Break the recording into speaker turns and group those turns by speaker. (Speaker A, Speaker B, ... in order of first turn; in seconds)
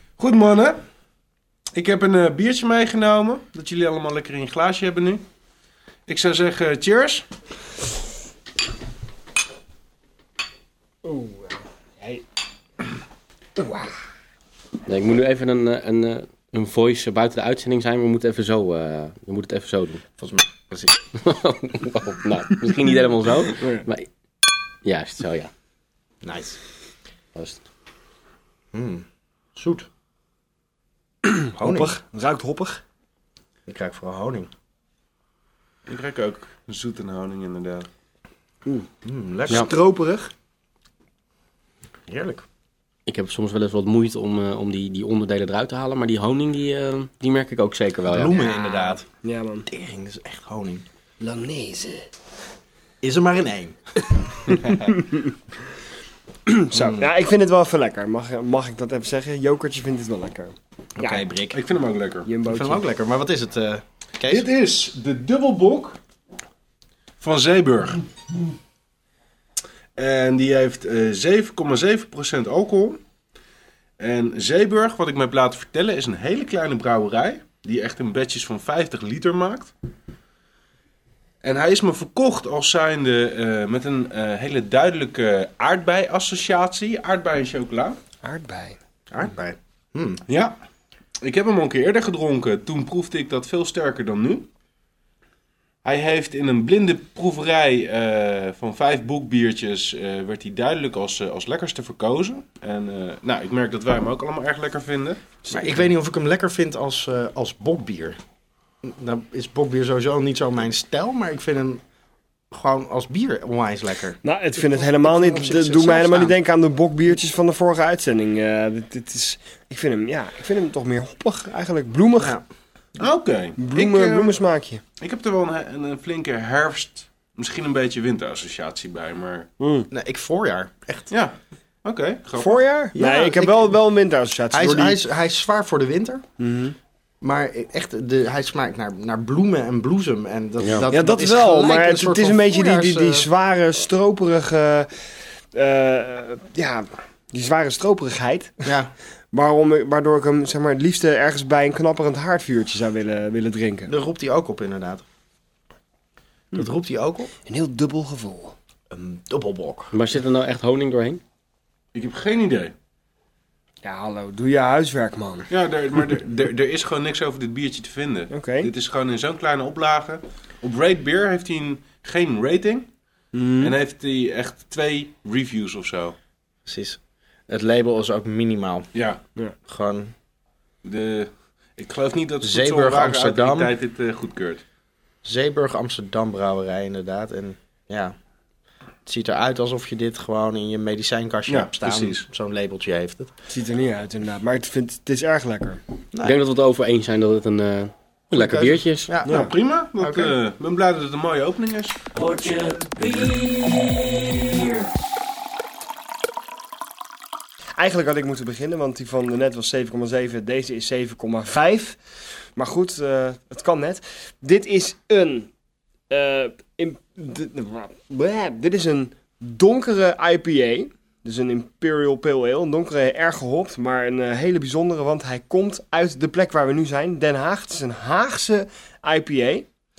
Speaker A: 0.2-0.8, 1.7-5.2, 6.1-7.3, 35.9-37.9, 61.5-62.3, 64.3-66.0, 67.2-68.0, 70.0-73.0, 74.0-79.7, 81.4-88.0, 90.3-90.6, 91.2-94.5, 95.8-105.7, 123.0-124.4, 125.0-129.5, 131.1-132.6, 161.9-162.7, 165.5-172.9, 173.6-176.2, 178.9-179.2, 180.8-184.6, 191.5-192.2, 199.2-201.9
Speaker B: 11.0-12.2, 13.6-13.9, 31.3-32.8, 39.5-40.3, 48.4-49.7, 51.2-52.1, 56.5-61.2, 62.3-62.8, 88.2-88.8, 114.2-122.4, 123.6-124.8, 129.6-129.9, 132.4-135.0, 136.4-136.8, 140.9-148.7, 149.3-153.9, 157.4-158.6, 163.8-165.5, 168.3-168.7, 173.3-173.7, 193.5-195.8, 199.2-199.5, 207.8-215.5, 216.1-229.7
Speaker C: 14.9-20.1, 21.2-24.1, 24.8-25.5, 27.4-27.6, 43.1-48.4, 140.6-140.9, 159.9-161.2, 196.2-199.1, 202.1-204.8
Speaker D: 20.2-21.0, 26.2-26.6, 28.7-29.9, 31.5-32.0, 33.7-34.5, 39.0-39.7, 42.1-42.5, 48.1-49.1, 49.7-50.8, 53.0-53.8, 54.3-54.9, 56.7-57.1, 61.0-61.6, 62.5-64.4, 89.1-90.2, 105.5-108.2, 108.8-111.8, 112.5-116.4, 129.9-131.1, 132.9-133.7, 134.5-136.2, 137.2-143.3, 148.6-148.9, 153.9-155.0, 156.5-157.3, 158.9-159.9, 176.7-178.9, 179.6-180.1, 182.4-183.7, 185.2-188.1, 189.0-193.3, 198.3-200.3